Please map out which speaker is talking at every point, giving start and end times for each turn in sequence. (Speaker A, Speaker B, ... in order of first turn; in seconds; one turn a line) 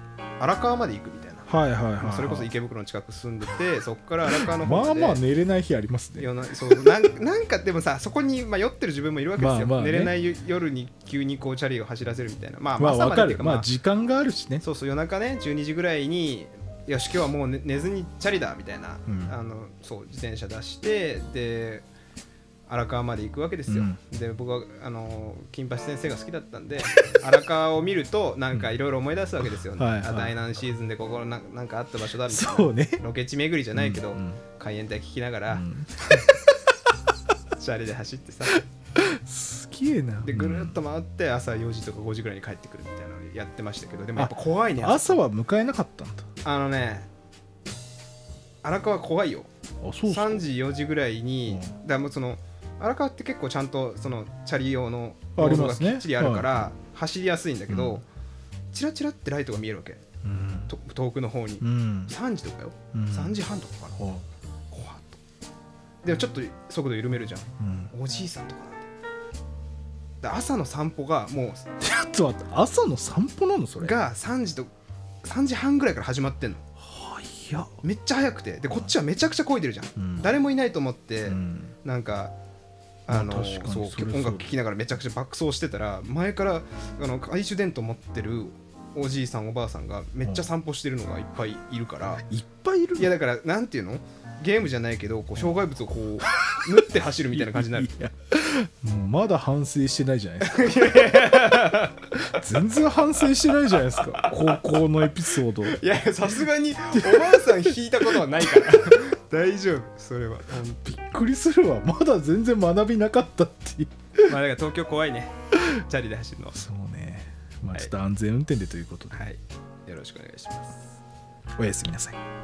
Speaker A: 0.4-5.2
Speaker B: 1.5-2.5
Speaker B: 4.2-6.9
Speaker A: 6.2-13.7
Speaker B: 9.4-10.2
Speaker B: 12.8-14.6
Speaker A: 14.6-21.9
Speaker B: 19.1-19.3
Speaker A: 22.7-36.2
Speaker B: 23.7-24.0
Speaker B: 29.8-30.4
Speaker B: 32.3-33.0
Speaker B: 33.7-34.4
Speaker B: 35.5-35.9
Speaker A: 37.5-38.6
Speaker B: 39.0-40.8
Speaker A: 40.2-45.2
Speaker B: 44.2-46.3
Speaker A: 46.4-47.1
Speaker A: 48.6-49.5
Speaker B: 49.8-50.5
Speaker A: 50.1-58.1
Speaker B: 51.5-51.7
Speaker B: 55.4-56.7
Speaker B: 57.7-58.0
Speaker A: 58.7-60.0
Speaker B: 60.2-60.7
Speaker A: 60.7-64.0
Speaker B: 61.6-62.1
Speaker B: 62.9-63.4
Speaker B: 64.0-64.2
Speaker A: 64.7-65.2
Speaker A: 66.0-68.9
Speaker B: 67.6-67.9
Speaker A: 70.2-71.7
Speaker B: 71.8-73.9
Speaker A: 73.8-74.7
Speaker A: 75.2-76.6
Speaker B: 76.8-77.7
Speaker A: 77.8-82.3
Speaker B: 80.0-80.3
Speaker B: 81.3-81.7
Speaker A: 83.1-92.2
Speaker B: 83.1-84.5
Speaker B: 92.3-93.1
Speaker A: 93.0-97.9
Speaker B: 97.3-101.4
Speaker A: 100.4-102.1
Speaker B: 102.3-105.8
Speaker A: 103.8-104.6
Speaker A: 105.6-110.8
Speaker B: 106.9-109.0
Speaker B: 110.8-114.3
Speaker A: 114.3-116.6
Speaker B: 116.5-119.2
Speaker A: 119.1-121.0
Speaker B: 121.6-122.2